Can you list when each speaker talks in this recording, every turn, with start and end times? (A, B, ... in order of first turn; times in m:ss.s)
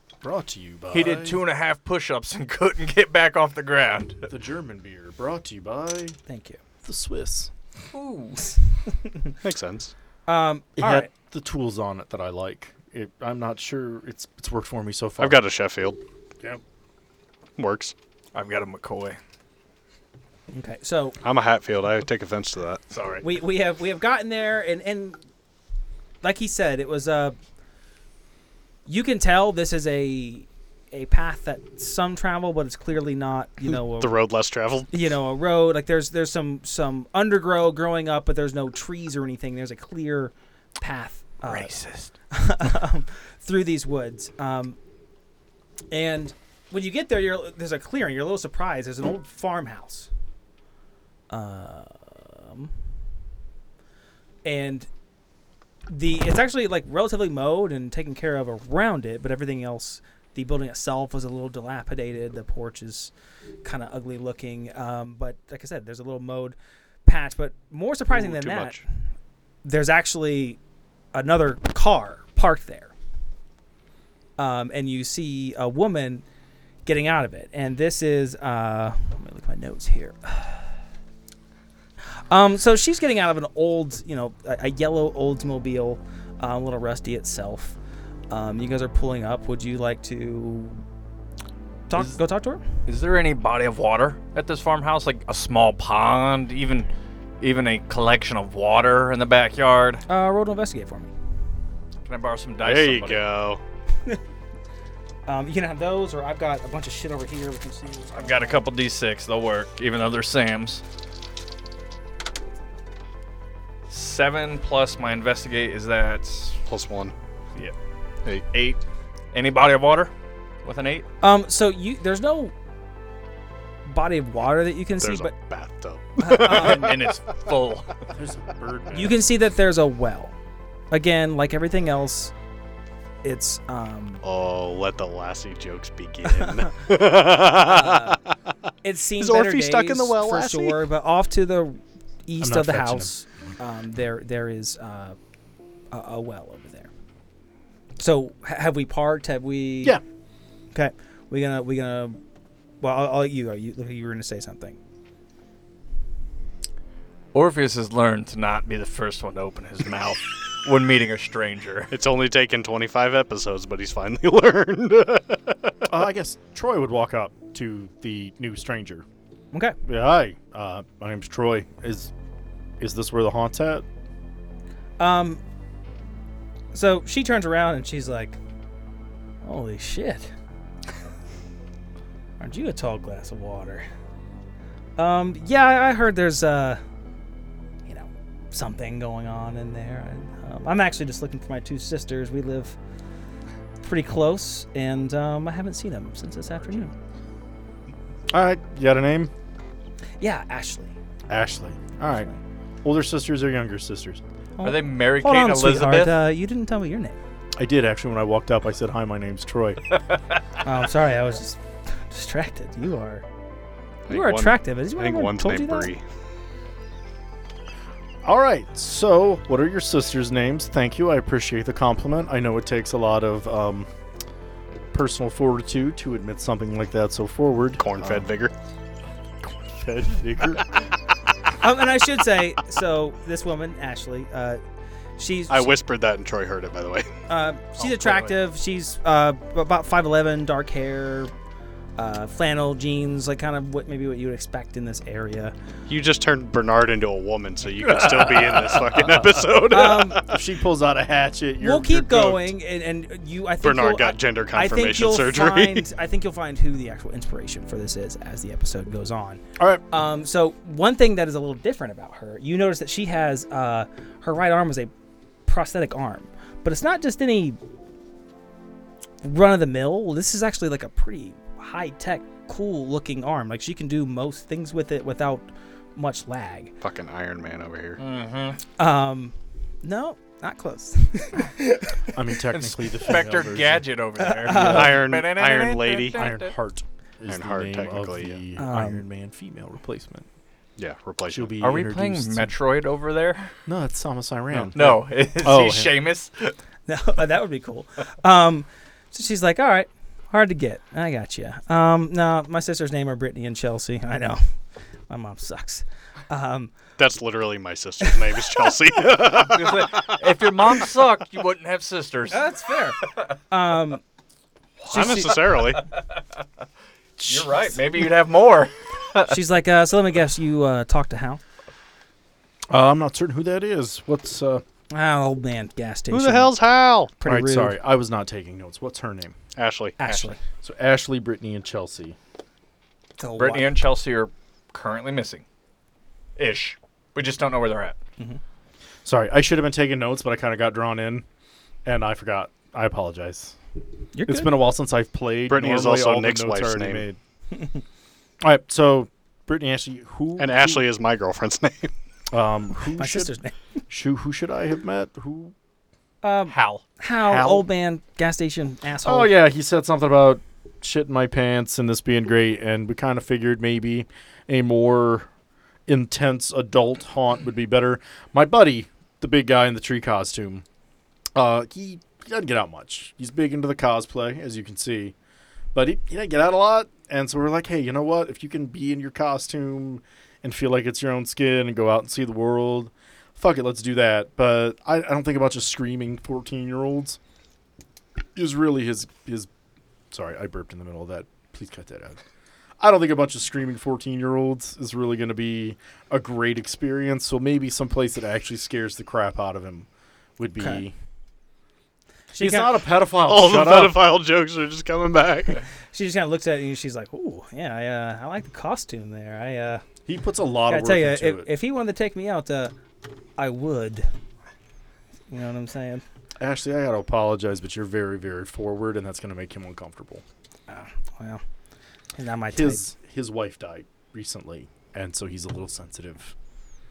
0:00.2-0:01.4 A
0:00.9-0:04.3 B
0:04.3-0:06.2 A
0:06.3-0:06.6 C
0:06.8-0:07.5 A
0:07.9-0:09.3 C
0:09.4-0:09.9 D
0:10.2-0:11.1 C
0:10.8-0:15.4 A
0:15.2-0:16.0 D
0:17.6-0:17.9 D
0:18.3-0:19.2 B
0:20.5-0:21.2 C
0:21.2-0:22.8 D
0:22.9-0:23.2 B
0:23.2-0:25.2 C
0:26.2-0:27.4 C
0:28.8-0:34.2 C
0:33.6-0:34.9 D
0:34.9-0:44.8 C
0:41.4-0:42.1 B
0:45.9-0:50.1 C
0:51.3-0:52.7 C
0:54.4-0:54.9 C
0:55.9-1:03.1 C
1:03.6-1:08.8 C
1:08.1-1:08.8 D
1:09.6-1:10.6 C
1:11.1-1:12.9 C
1:14.4-1:16.2 C
1:16.8-1:20.7 C
1:22.3-1:27.8 C
1:28.3-1:30.8 C
1:31.9-1:32.6 C
1:32.8-1:40.0 B
1:40.1-1:41.1 C
1:42.0-1:43.2 B
1:42.6-1:43.6 D
1:45.3-1:48.6 C
1:48.1-1:50.8 B
1:53.9-1:56.6 B
1:56.7-1:57.1 D
1:58.5-1:58.8 B
1:59.3-2:00.1 B
2:00.6-2:01.0 B
2:01.2-2:02.5 C
2:03.8-2:05.3 C
2:05.0-2:07.1 D
2:06.2-2:07.0 C
2:06.4-2:08.0 B
2:08.1-2:09.2 A
2:08.9-2:10.3 C
2:10.9-2:12.3 C
2:13.2-2:14.2 C
2:14.2-2:18.3 D
2:16.2-2:16.7 C
2:17.3-2:18.2 C
2:18.8-2:25.2 C
2:19.2-2:20.8 D
2:22.4-2:23.1 A
2:25.9-2:26.9 C
2:28.0-2:30.0 C
2:30.7-2:32.2 C
2:32.8-2:34.8 C
2:37.3-2:41.9 B
2:41.9-2:45.8 D
2:45.9-2:49.0 A
2:49.5-2:49.8 C
2:49.8-2:52.1 A
2:52.8-2:53.8 A
2:55.0-2:55.4 C
2:56.7-2:58.4 C
2:59.4-3:00.3 C
3:02.4-3:03.8 C
3:05.0-3:06.8 C
3:07.8-3:12.8 C
3:13.8-3:16.9 C
3:18.3-3:19.3 A
3:20.2-3:21.0 C
3:21.3-3:22.3 A
3:22.8-3:24.2 A
3:24.6-3:27.2 C
3:24.6-3:26.2 B
3:27.6-3:29.9 A
3:30.6-3:33.2 C
3:34.1-3:36.0 D
3:34.1-3:35.9 C
3:38.2-3:43.9 A
3:44.9-3:48.3 A
3:47.8-3:48.5 D
3:49.6-3:50.8 A
3:51.6-3:54.6 C
3:55.2-3:55.8 C
3:55.5-3:57.1 D
3:57.3-4:01.3 C
4:02.0-4:05.5 C
4:05.9-4:10.4 D
4:07.8-4:12.5 A
4:09.6-4:10.2 C
4:11.6-4:24.9 C
4:13.6-4:15.9 D
4:19.6-4:19.8 A
4:25.4-4:27.6 C
4:29.2-4:36.7 C
4:36.8-4:38.0 D
4:38.0-4:38.6 B
4:38.8-4:42.0 C
4:42.1-4:43.8 A
4:42.5-4:46.5 B
4:44.2-4:45.1 C
4:44.5-4:46.2 D
4:46.1-4:50.3 A
4:47.3-4:48.4 D
4:48.6-4:49.0 C
4:50.8-4:51.5 D
4:51.3-4:52.6 A
4:51.6-4:53.5 B
4:53.6-4:55.9 A
4:54.5-4:54.8 D
4:54.7-4:56.6 B
4:56.8-5:04.4 C
5:05.1-5:06.7 C
5:07.0-5:10.2 D
5:08.1-5:08.6 C
5:09.2-5:12.5 B
5:12.3-5:14.0 C
5:14.8-5:15.8 D
5:14.9-5:15.4 C
5:15.0-5:16.0 B
5:17.2-5:19.4 B
5:17.2-5:17.5 D
5:19.3-5:21.4 C
5:22.7-5:24.6 A
5:24.9-5:26.5 C
5:26.1-5:27.1 D
5:27.2-5:27.8 C
5:27.2-5:29.3 A
5:29.5-5:30.3 D
5:30.0-5:30.4 C
5:30.6-5:32.2 A
5:33.2-5:33.7 C
5:33.4-5:35.4 B
5:36.4-5:38.0 B
5:39.0-5:41.2 A
5:41.8-5:43.6 A
5:44.1-5:44.6 C
5:44.3-5:47.2 A
5:45.5-5:47.1 D
5:48.4-5:50.9 A
5:50.4-5:51.9 D
5:52.3-5:53.3 A
5:53.0-5:53.5 C
5:53.9-5:55.5 A
5:56.2-5:59.3 C
5:56.5-5:56.8 B
5:57.2-5:57.6 A
5:59.0-6:05.3 A
6:05.9-6:10.6 A
6:11.3-6:15.1 A
6:15.7-6:27.2 A
6:28.4-6:29.5 A
6:30.1-6:32.2 A
6:32.8-6:40.9 A
6:40.6-6:40.8 C
6:42.3-6:42.8 C
6:42.4-6:44.0 A
6:43.2-6:45.6 D
6:45.9-6:49.8 C
6:50.0-6:51.5 A
6:50.7-6:52.8 C
6:53.4-6:54.1 C
6:55.3-6:56.0 C
6:56.4-7:00.2 A
7:00.7-7:01.4 C
7:02.2-7:02.8 C
7:02.5-7:06.3 A